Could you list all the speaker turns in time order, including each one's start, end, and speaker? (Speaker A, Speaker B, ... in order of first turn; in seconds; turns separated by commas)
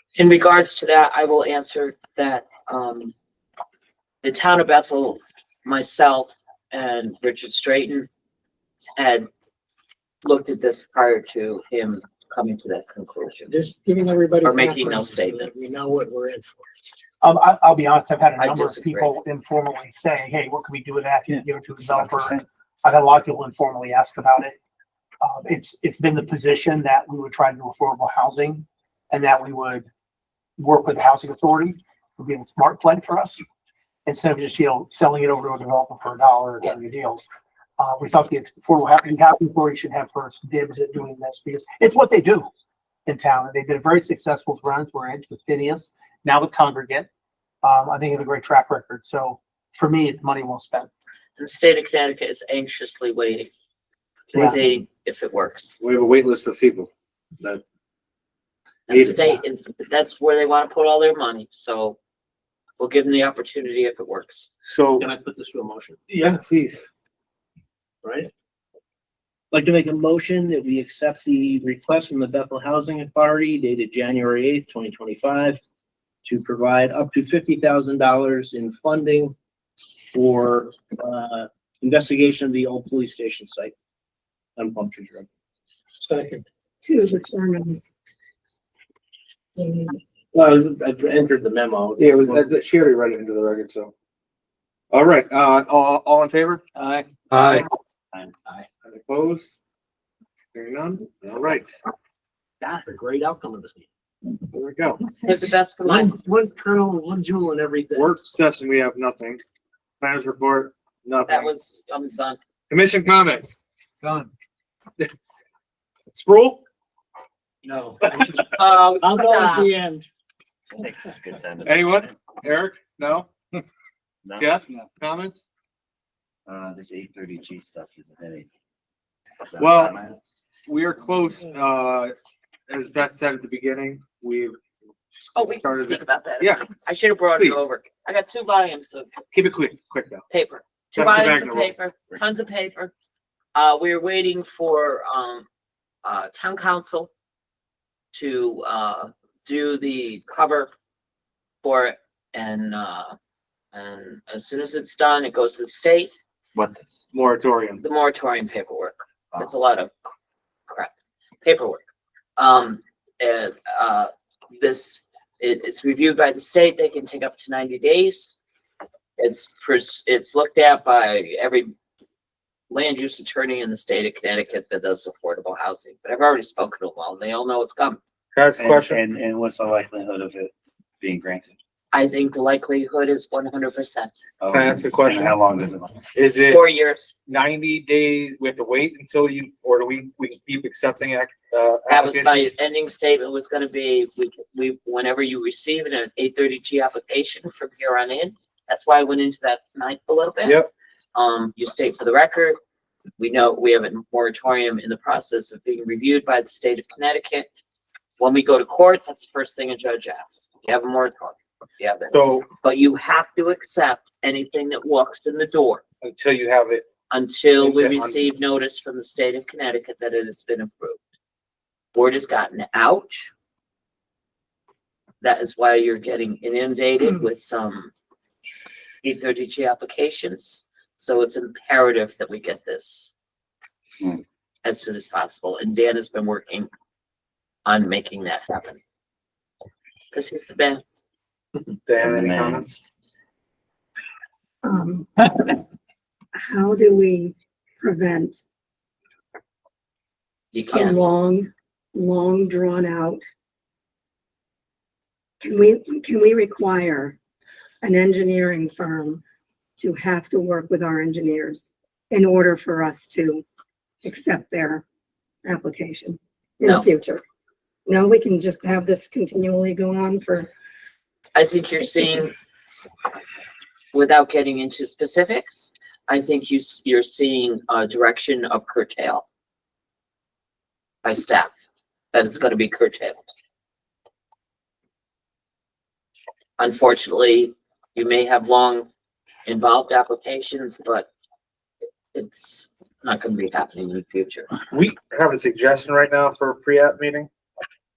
Speaker A: 0.1-3.1, Speaker A: 4.2-8.1, Speaker A: 9.0-9.3, Speaker A: 10.2-13.5, Speaker B: 13.5-16.9, Speaker A: 14.4-15.6, Speaker C: 17.2-24.5, Speaker A: 18.4-19.1, Speaker D: 21.3-22.4, Speaker C: 25.2-29.9, Speaker C: 30.6-33.4, Speaker C: 34.0-37.2, Speaker C: 37.8-42.5, Speaker C: 43.0-47.1, Speaker C: 47.6-50.9, Speaker A: 51.4-53.5, Speaker A: 54.3-55.8, Speaker E: 55.8-57.6, Speaker A: 58.9-62.0, Speaker E: 58.9-59.3, Speaker A: 62.8-64.5, Speaker E: 64.6-65.1, Speaker F: 65.0-66.0, Speaker E: 66.1-66.8, Speaker F: 68.0-68.3, Speaker F: 69.5-75.6, Speaker F: 76.2-79.3, Speaker F: 80.1-83.7, Speaker F: 84.5-85.3, Speaker B: 86.1-86.4, Speaker G: 86.8-87.8, Speaker G: 89.5-90.0, Speaker F: 90.3-92.5, Speaker E: 92.0-93.9, Speaker E: 94.9-97.6, Speaker E: 98.8-99.5, Speaker E: 100.5-101.7, Speaker F: 102.6-103.8, Speaker E: 104.5-105.0, Speaker A: 105.2-106.1, Speaker F: 105.8-108.1, Speaker E: 107.9-109.4, Speaker E: 110.0-111.5, Speaker A: 111.2-112.4, Speaker E: 112.7-114.2, Speaker E: 116.1-116.6, Speaker B: 117.6-118.4, Speaker A: 118.5-119.7, Speaker B: 119.0-120.1, Speaker D: 120.8-122.3, Speaker E: 121.6-123.3, Speaker D: 124.2-124.8, Speaker E: 124.4-125.4, Speaker D: 126.5-128.5, Speaker D: 129.4-130.2, Speaker E: 129.6-129.9, Speaker E: 130.7-132.1, Speaker E: 132.7-134.6, Speaker A: 135.3-139.1, Speaker E: 135.6-136.8, Speaker E: 137.3-137.7, Speaker E: 139.3-140.2, Speaker A: 140.3-142.9, Speaker E: 140.9-141.7, Speaker A: 143.5-145.4, Speaker A: 146.0-147.1, Speaker A: 148.1-150.7, Speaker A: 151.6-153.2, Speaker A: 153.7-156.1, Speaker D: 156.5-157.0, Speaker E: 157.1-157.8, Speaker A: 157.8-159.9, Speaker A: 160.7-161.8, Speaker A: 162.4-168.4, Speaker A: 169.2-171.7, Speaker A: 172.7-178.0, Speaker E: 178.3-179.0, Speaker D: 178.6-181.5, Speaker A: 181.9-184.1, Speaker D: 184.4-186.0, Speaker E: 184.5-185.4, Speaker E: 186.1-186.6, Speaker A: 186.5-187.1, Speaker E: 187.3-192.5, Speaker A: 191.9-200.6, Speaker E: 200.4-200.7, Speaker A: 201.1-202.6, Speaker A: 203.2-207.5, Speaker A: 208.2-215.8, Speaker E: 212.1-212.5, Speaker E: 216.0-216.8, Speaker A: 217.1-221.0, Speaker E: 217.6-218.2, Speaker A: 221.9-223.3, Speaker A: 225.2-227.9, Speaker A: 229.0-233.1, Speaker A: 234.6-236.7, Speaker A: 237.6-238.8, Speaker A: 240.1-240.8, Speaker E: 241.8-242.7, Speaker D: 242.0-242.7, Speaker G: 244.6-245.6, Speaker G: 246.3-248.4, Speaker A: 250.5-250.9, Speaker G: 250.7-253.2, Speaker G: 255.4-257.1, Speaker G: 257.8-259.2, Speaker G: 259.8-263.4, Speaker G: 264.0-264.8, Speaker G: 265.4-267.2, Speaker G: 267.9-270.5, Speaker A: 271.3-272.3, Speaker A: 273.9-279.2, Speaker A: 281.0-281.6, Speaker A: 282.1-283.2, Speaker A: 286.6-288.9, Speaker A: 289.4-291.1, Speaker A: 292.1-294.5, Speaker E: 294.7-297.3